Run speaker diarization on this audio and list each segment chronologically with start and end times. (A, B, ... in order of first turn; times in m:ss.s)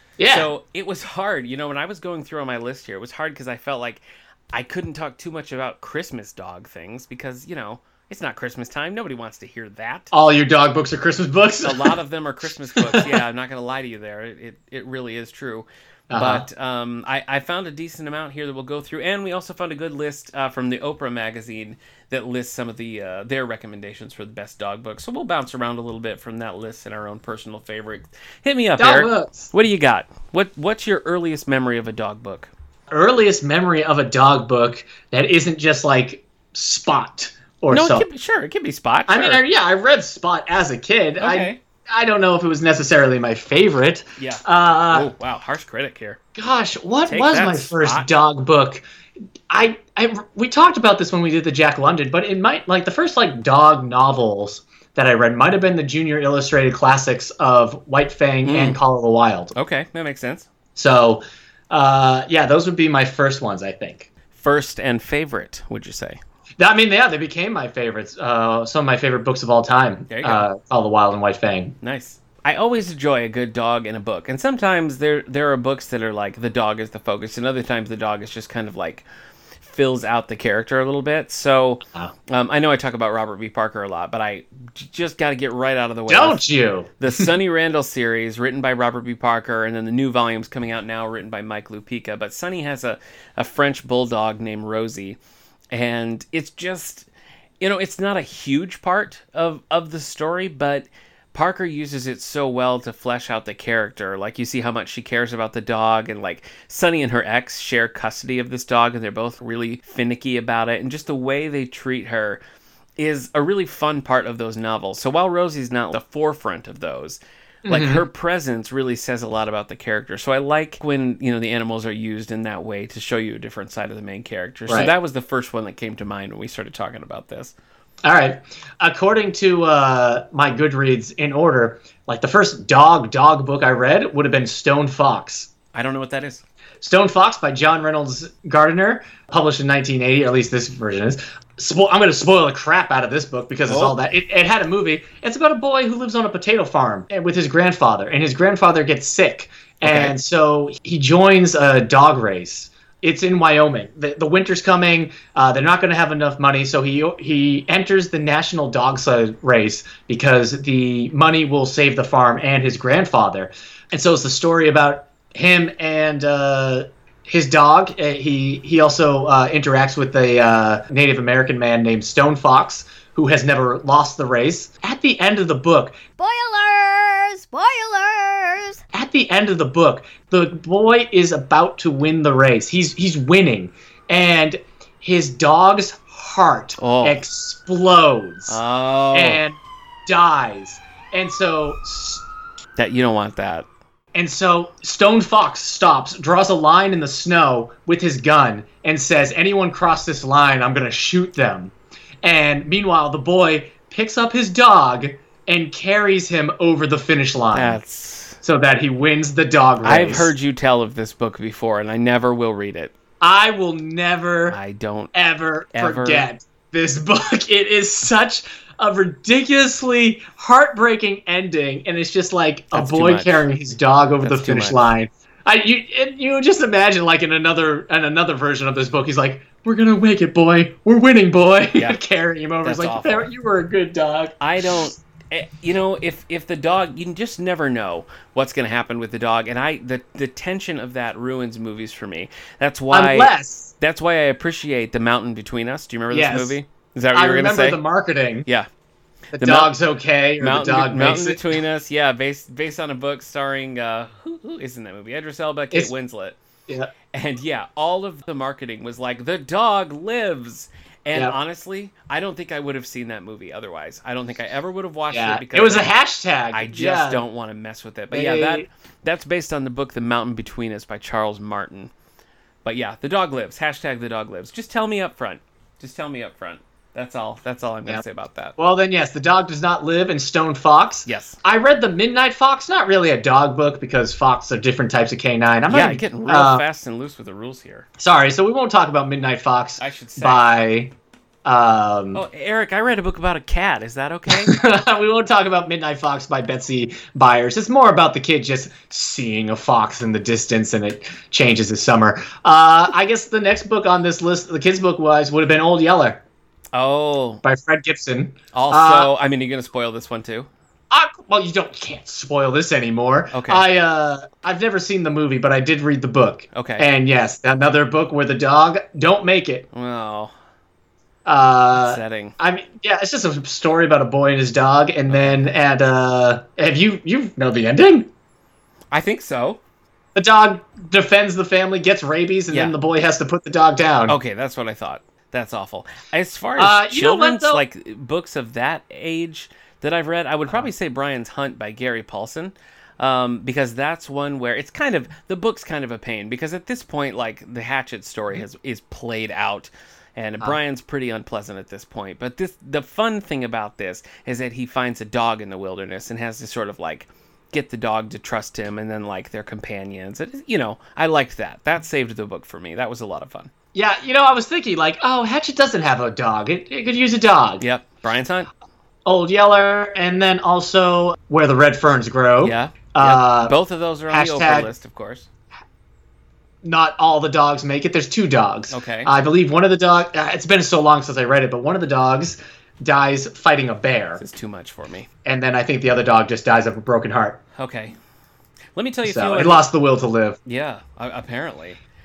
0:00.2-0:00.5 A
0:00.3-0:10.1 B
0:10.1-0:12.0 A
0:11.6-0:32.5 B
0:12.8-0:13.2 A
0:16.1-0:16.5 A
0:28.8-0:29.5 A
0:32.9-0:38.1 A
0:37.7-0:39.4 B
0:39.1-0:45.1 A
0:41.2-0:41.6 B
0:44.2-0:46.2 B
0:46.4-0:48.8 A
0:47.1-0:48.1 B
0:49.5-0:59.5 A
0:58.4-0:58.8 B
0:59.6-1:00.5 B
1:00.8-1:04.1 A
1:04.3-1:06.2 B
1:06.6-1:11.8 A
1:10.1-1:10.4 B
1:11.8-1:19.0 B
1:19.6-1:26.4 B
1:26.1-1:27.3 A
1:27.0-1:35.2 B
1:35.7-1:37.1 B
1:37.6-1:52.4 B
1:53.0-2:07.5 B
1:57.6-1:58.0 A
2:08.0-2:15.5 A
2:15.7-2:16.4 B
2:16.8-2:56.0 A
2:23.7-2:24.0 B
2:29.8-2:30.1 B
2:56.2-2:58.8 C
2:58.9-3:08.6 A
3:06.8-3:07.2 B
3:08.5-3:09.4 B
3:09.1-3:12.2 A
3:12.8-3:13.7 B
3:14.1-3:27.8 A
3:27.5-3:28.4 B
3:28.4-3:30.3 A
3:29.8-3:32.9 B
3:33.2-3:34.6 A
3:34.5-3:35.1 B
3:35.1-3:54.8 A
3:35.7-3:36.3 B
3:42.7-3:43.4 B
3:44.2-3:44.8 B
3:52.6-3:53.3 B
3:54.4-4:07.8 B
4:02.9-4:03.7 A
4:06.1-4:06.6 A
4:07.1-4:08.5 A
4:09.3-4:09.7 B
4:09.3-4:11.4 A
4:10.4-4:16.4 B
4:17.1-4:25.9 B
4:25.1-4:27.2 A
4:26.5-4:31.9 B
4:28.1-4:28.7 A
4:32.6-4:38.6 B
4:38.6-4:46.6 A
4:41.1-4:41.4 B
4:45.7-4:47.9 B
4:48.0-4:50.9 A
4:49.8-4:50.5 B
4:51.4-4:52.2 A
4:52.1-4:54.6 B
4:54.3-5:06.2 A
5:06.7-5:07.4 B
5:07.4-5:09.1 A
5:08.5-5:10.5 B
5:10.9-5:19.7 A
5:13.3-5:13.6 B
5:16.5-5:16.9 B
5:19.7-5:20.3 B
5:21.2-5:28.1 A
5:21.8-5:22.4 B
5:25.1-5:25.5 B
5:28.9-5:29.6 B
5:30.1-5:34.2 A
5:34.1-6:03.5 B
5:36.6-5:37.6 A
6:03.7-6:07.6 A
6:07.6-6:08.5 B
6:09.1-6:13.6 A
6:12.4-6:15.3 B
6:14.1-6:14.7 A
6:16.6-6:24.2 A
6:18.7-6:19.1 B
6:24.2-6:25.1 B
6:25.2-6:27.4 A
6:27.6-6:28.0 B
6:28.8-6:29.7 B
6:29.0-6:30.4 A
6:30.5-6:31.8 B